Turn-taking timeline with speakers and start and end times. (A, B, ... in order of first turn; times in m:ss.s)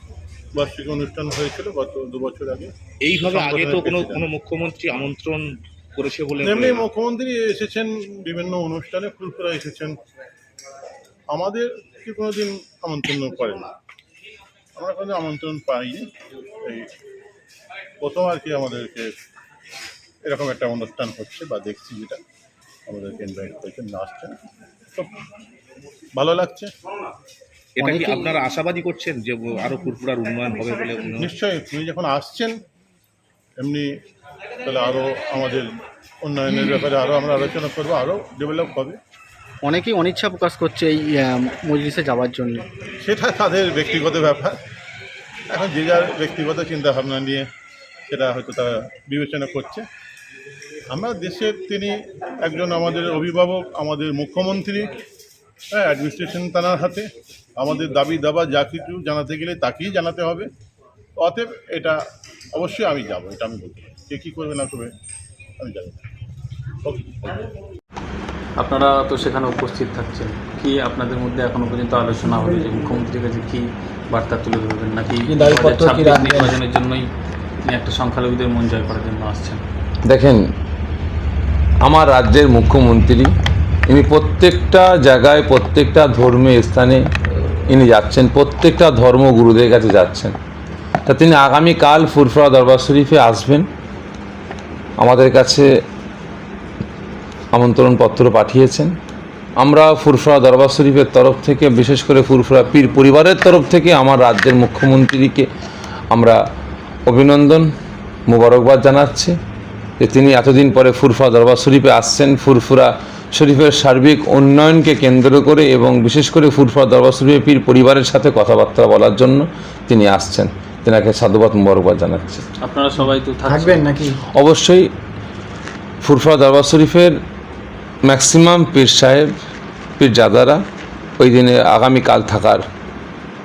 0:00.5-0:02.7 A
0:03.0-0:06.9 B
0:03.2-0:04.3 A
0:06.4-0:10.0 A
0:11.3-0:13.7 A
0:14.8-0:16.1 A
0:18.0-0:19.1 A
0:20.2-0:22.2 A
0:22.9-0:24.4 A
0:26.2-0:26.7 A
0:27.8-0:31.3 B
0:31.2-0:32.6 A
0:33.6-0:33.9 A
0:34.6-0:35.7 A
0:36.2-0:39.0 A
0:39.6-0:42.6 C
0:43.0-0:44.6 A
0:45.5-0:47.5 A
0:48.1-0:49.8 A
0:50.9-0:55.0 A
0:55.7-1:00.5 A
1:01.2-1:02.0 A
1:02.5-1:04.9 A
1:05.6-1:06.0 A
1:06.8-1:07.4 A
1:08.6-1:17.0 D
1:12.2-1:13.0 C
1:15.2-1:16.6 C
1:17.6-1:19.6 D
1:20.0-1:20.4 E
1:21.8-1:23.3 E
1:23.9-1:30.3 E
1:31.0-1:33.7 E
1:35.0-1:35.7 E
1:37.5-1:38.9 E
1:39.6-1:45.5 E
1:46.1-1:46.4 E
1:47.1-1:47.7 E
1:48.3-1:49.3 E
1:50.0-2:02.4 E
2:02.6-2:03.8 D
2:03.5-2:04.2 C
2:04.3-2:04.8 E
2:06.0-2:07.2 E
2:08.1-2:09.3 E
2:10.0-2:10.6 E
2:11.2-2:12.6 E